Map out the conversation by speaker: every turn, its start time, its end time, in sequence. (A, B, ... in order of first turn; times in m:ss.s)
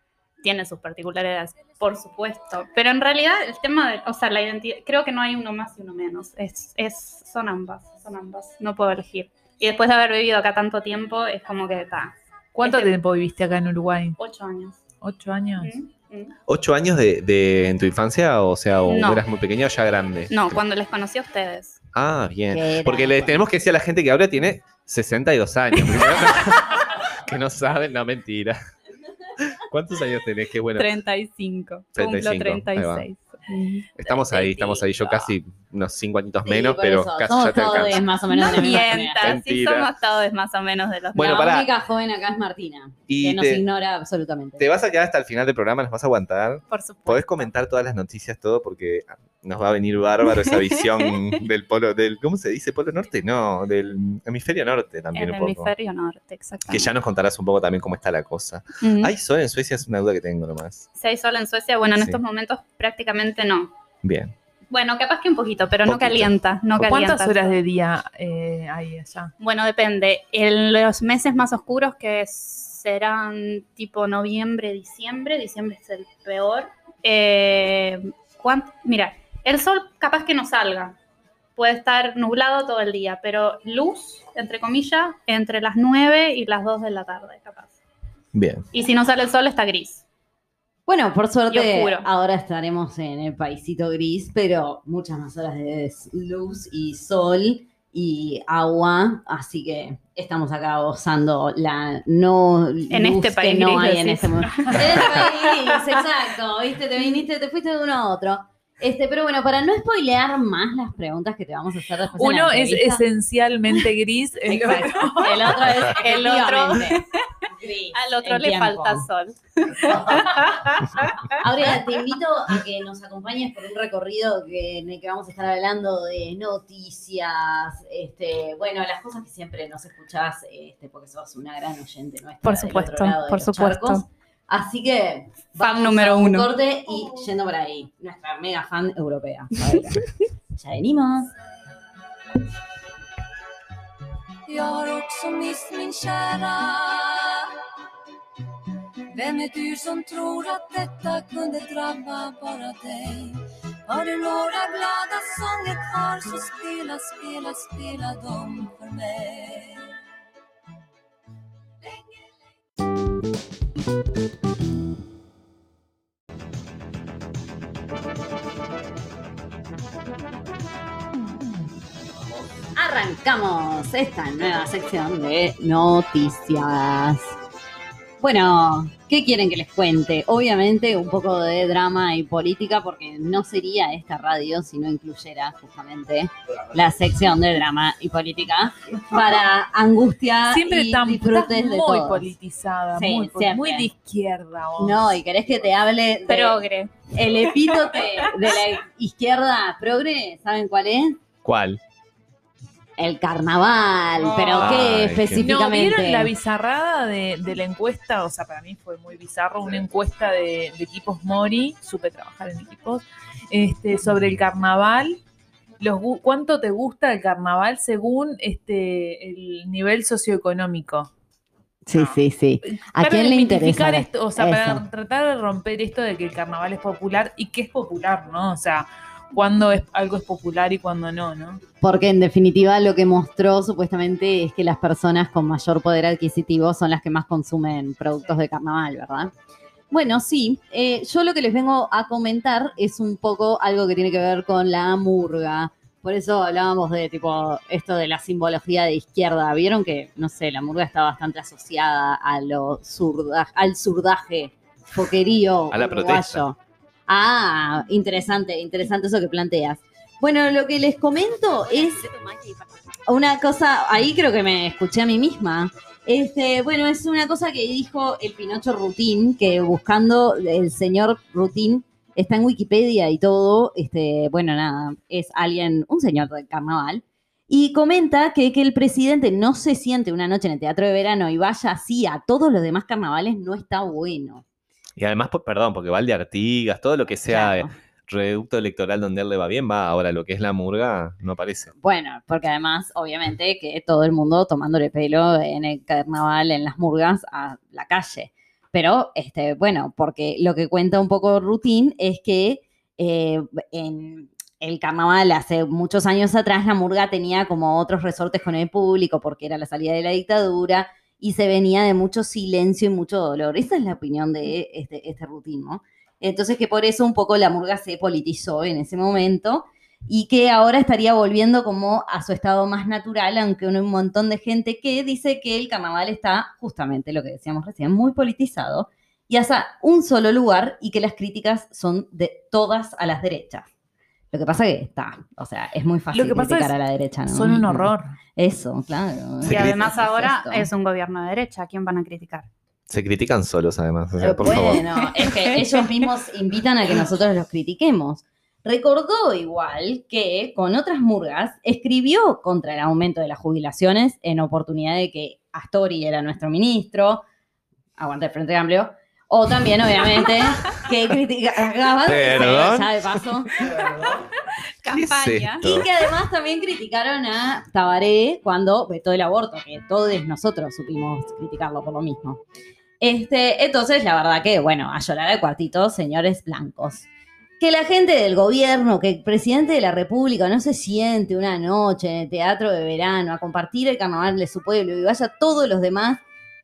0:00.4-0:12.9 A
0:12.5-0:14.2 B
0:14.2-0:14.8 A
0:15.0-0:15.7 B
0:15.6-0:16.3 A
0:16.5-0:20.6 C
0:18.9-0:19.2 A
0:20.3-0:21.8 A
0:21.9-0:28.6 C
0:22.5-0:23.4 D
0:29.4-0:30.9 C
0:30.7-0:35.3 A
0:31.9-0:33.1 C
0:34.0-0:39.9 C
0:36.4-0:39.4 D
0:38.3-0:41.6 A
0:41.1-0:41.7 C
0:41.3-0:44.7 D
0:43.1-0:43.6 C
0:44.6-0:55.7 C
0:46.7-0:47.5 A
0:50.2-0:51.1 A
0:55.1-0:56.9 A
0:56.7-1:00.9 C
0:58.8-0:59.1 A
1:01.0-1:03.7 A
1:04.0-1:04.3 C
1:04.7-1:07.6 A
1:05.8-1:06.3 C
1:06.8-1:09.3 B
1:09.4-1:21.0 A
1:21.6-1:27.8 A
1:28.3-1:28.6 C
1:28.7-1:30.0 A
1:30.9-1:53.0 D
1:31.5-1:32.1 A
1:42.9-1:45.9 A
1:52.2-1:55.5 B
1:54.5-1:59.0 D
1:54.8-1:57.2 A
1:57.9-2:01.4 A
2:01.4-2:21.3 D
2:12.4-2:14.0 A
2:15.6-2:16.5 A
2:24.4-2:27.5 E
2:29.1-2:39.9 E
2:52.7-2:57.4 D
2:58.2-3:12.3 D
3:10.4-3:15.2 B
3:12.9-3:13.9 D
3:14.8-3:21.2 D
3:16.3-3:18.3 A
3:21.4-3:21.8 C
3:23.0-3:26.3 D
3:24.2-3:24.7 B
3:24.6-3:25.4 C
3:25.4-3:35.2 B
3:35.8-3:41.1 B
3:41.8-3:44.8 D
3:41.9-3:51.6 B
3:51.8-3:59.3 D
3:59.9-4:22.4 D
4:15.7-4:16.4 C
4:23.0-4:44.4 D
4:45.0-4:51.7 C
4:47.2-4:47.7 D
4:51.8-5:33.7 D
5:34.3-5:40.7 D
5:36.1-5:36.7 B
5:37.3-5:38.2 B
5:39.4-5:39.8 C
5:39.4-5:42.5 A
5:42.9-5:44.8 C
5:44.2-5:57.2 D
5:45.2-5:45.9 A
5:58.0-6:03.5 D
6:02.0-6:02.9 C
6:04.8-6:05.9 A
6:04.9-6:05.8 C
6:05.6-6:12.4 D
6:13.0-6:17.0 D
6:17.6-6:26.2 D